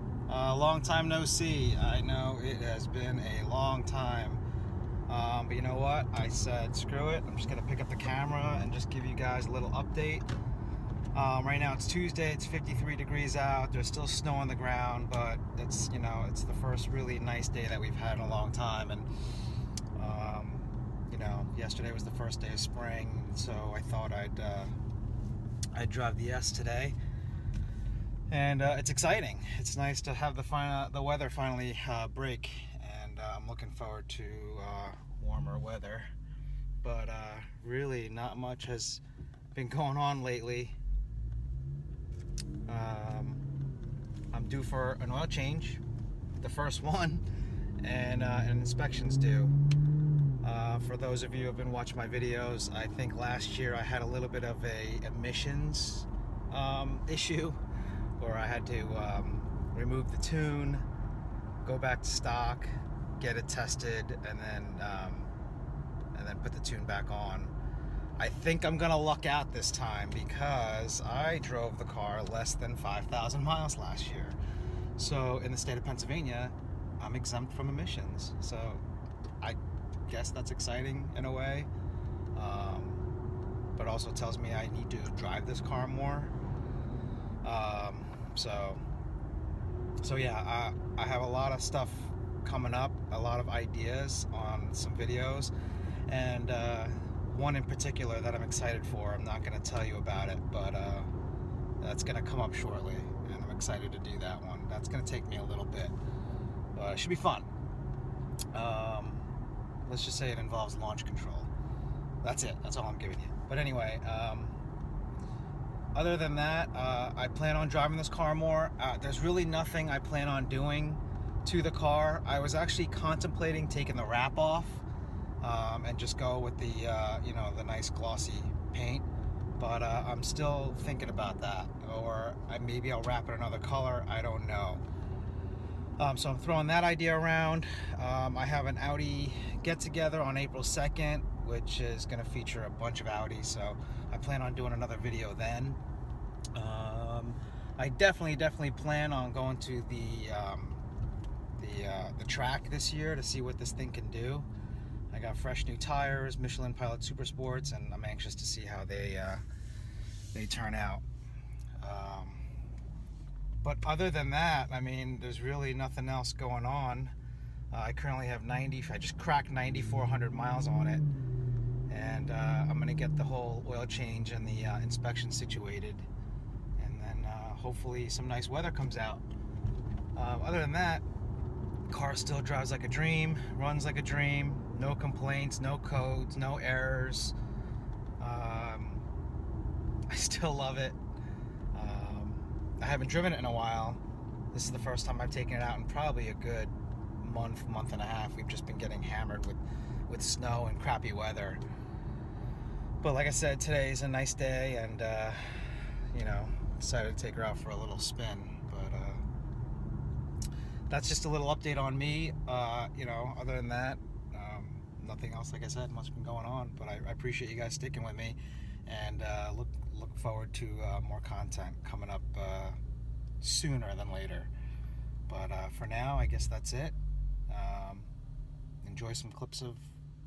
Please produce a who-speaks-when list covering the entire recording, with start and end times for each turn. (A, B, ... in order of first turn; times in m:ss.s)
0:00.3-0:04.4 A
0:05.1-0:10.2 A
0:11.1-0:19.1 A
0:19.9-0:24.7 A
0:25.7-0:27.0 A
0:28.3-0:36.1 A
0:36.8-0:39.0 A
0:39.5-0:40.8 A
0:42.7-0:43.4 A
0:44.3-0:45.8 A
0:46.4-0:47.2 A
0:47.8-0:49.6 A
0:50.4-0:57.6 A
0:58.2-1:00.8 A
1:01.6-1:05.3 A
1:06.1-1:07.5 A
1:08.2-1:14.4 A
1:15.0-1:18.8 A
1:19.4-1:21.7 A
1:22.3-1:23.0 A
1:23.8-1:26.3 A
1:27.4-1:28.8 A
1:30.0-1:35.5 A
1:36.1-1:41.1 A
1:41.8-1:45.9 A
1:46.7-1:47.5 A
1:48.5-1:49.3 A
1:49.8-1:51.5 A
1:52.2-1:54.6 A
1:55.9-2:04.8 A
2:05.4-2:09.1 A
2:09.6-2:14.8 A
2:16.0-2:25.8 A
2:26.5-2:30.8 A
2:31.6-2:34.5 A
2:35.1-2:39.4 A
2:40.3-2:41.0 A
2:41.8-2:42.4 A
2:43.6-2:47.1 A
2:47.7-2:51.0 A
2:51.9-2:56.1 A
2:56.8-2:59.2 A
3:00.1-3:01.0 A
3:01.9-3:07.4 A
3:08.2-3:09.0 A
3:10.1-3:11.0 A
3:11.7-3:14.0 A
3:14.5-3:21.6 A
3:23.0-3:29.2 A
3:30.9-3:42.8 A
3:43.4-3:44.5 A
3:45.3-3:47.0 A
3:47.5-3:48.1 A
3:48.8-3:49.9 A